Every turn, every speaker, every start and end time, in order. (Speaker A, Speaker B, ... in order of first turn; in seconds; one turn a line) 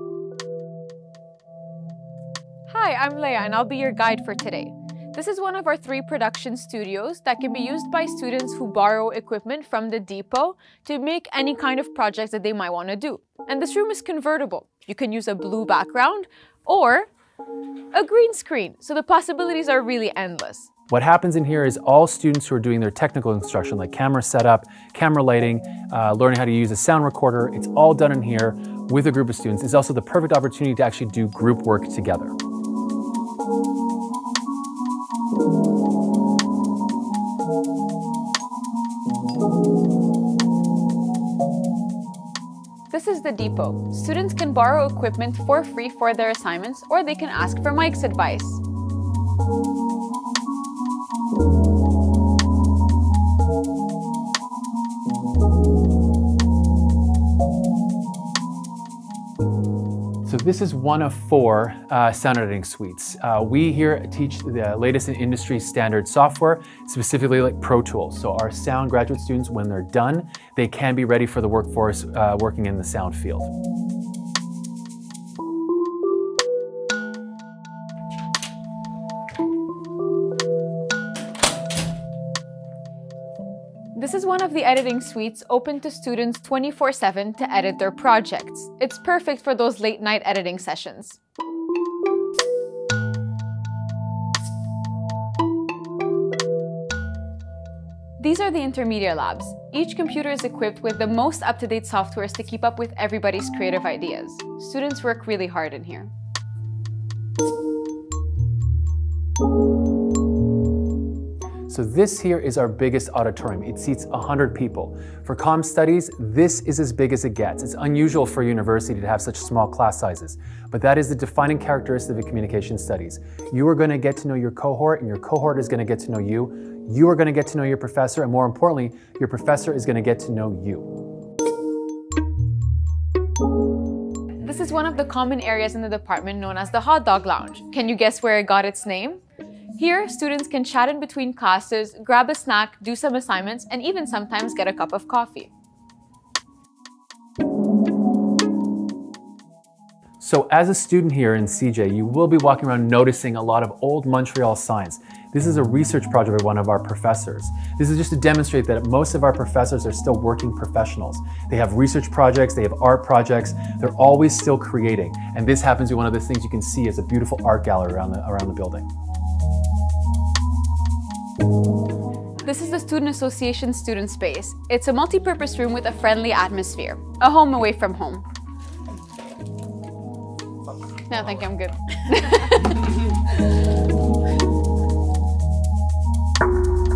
Speaker A: 2.7-17.1
Speaker A: 17.9-20.7
Speaker B: 20.9-32.4
Speaker A: 42.9-48.6
Speaker B: 60.2-73.5
Speaker A: 83.9-91.2
Speaker A: 98.2-106.1
Speaker B: 111.7-130.9
Speaker A: 134.4-139.2
Speaker A: 139.8-145.5
Speaker B: 150.2-168.8
Speaker A: 172.4-178.2
Speaker A: 181.1-182.9